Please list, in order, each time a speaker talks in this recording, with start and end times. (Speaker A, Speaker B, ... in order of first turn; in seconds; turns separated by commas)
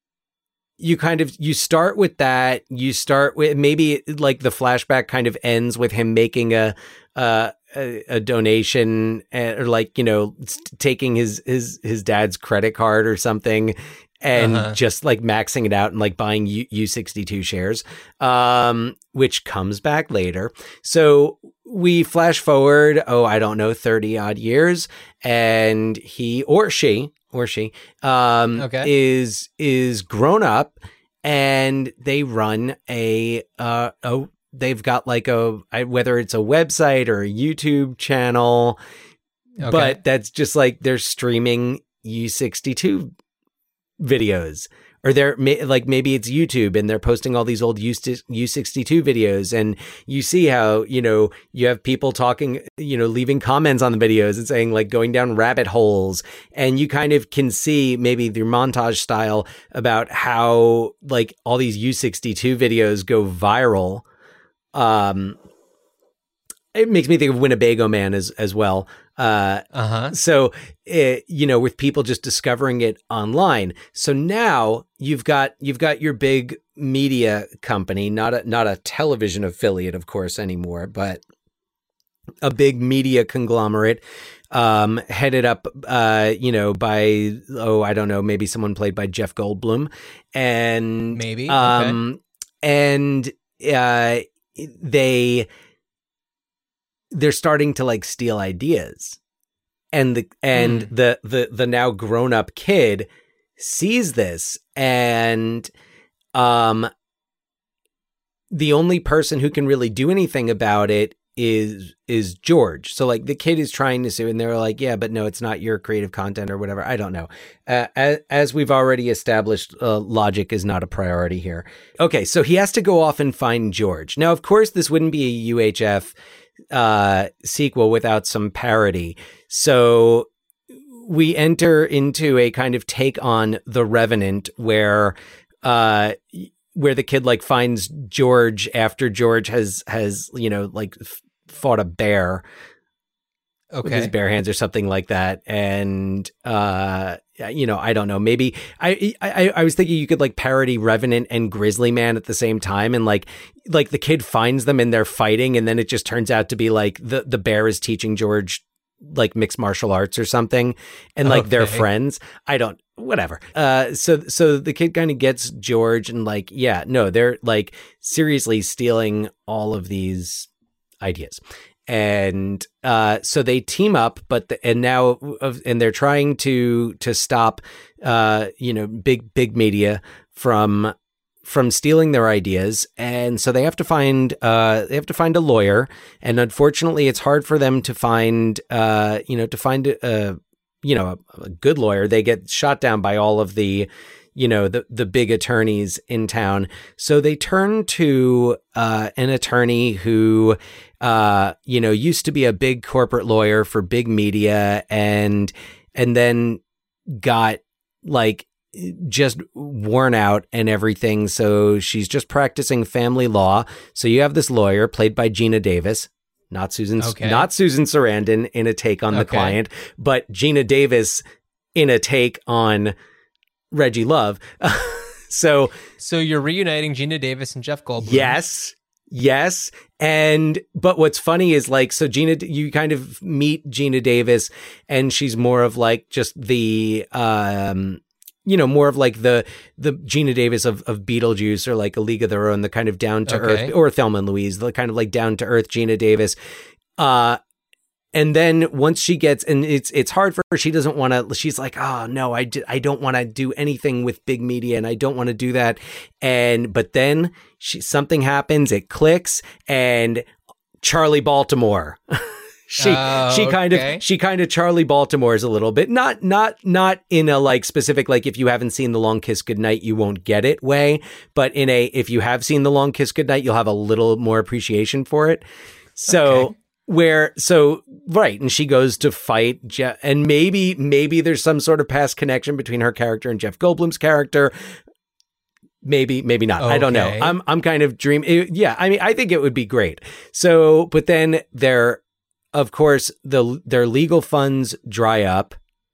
Speaker A: 0.8-38.8, Speaker B: 14.3-14.8, Speaker B: 28.6-28.9, Speaker B: 39.6-40.0, Speaker A: 39.6-43.1, Speaker A: 44.0-64.0, Speaker A: 64.7-65.4, Speaker A: 66.7-81.2, Speaker B: 69.7-70.2, Speaker A: 82.4-95.5, Speaker B: 91.1-92.0, Speaker A: 97.1-99.2, Speaker A: 99.9-105.7, Speaker B: 100.5-100.9, Speaker A: 106.3-106.9, Speaker A: 108.5-126.1, Speaker A: 126.7-130.3, Speaker A: 130.9-142.4, Speaker B: 143.7-144.1, Speaker A: 143.8-170.5, Speaker B: 161.2-161.9, Speaker A: 171.0-221.2, Speaker B: 217.0-217.5, Speaker B: 219.1-219.6, Speaker A: 221.8-222.9, Speaker A: 223.7-225.8, Speaker B: 226.0-228.4, Speaker A: 228.0-246.4, Speaker B: 243.3-243.7, Speaker A: 247.0-247.4, Speaker A: 248.1-260.3, Speaker A: 260.8-275.4, Speaker B: 262.8-264.0, Speaker A: 276.0-284.5, Speaker B: 276.1-276.5, Speaker A: 285.8-292.0, Speaker B: 286.6-287.4, Speaker A: 292.5-295.6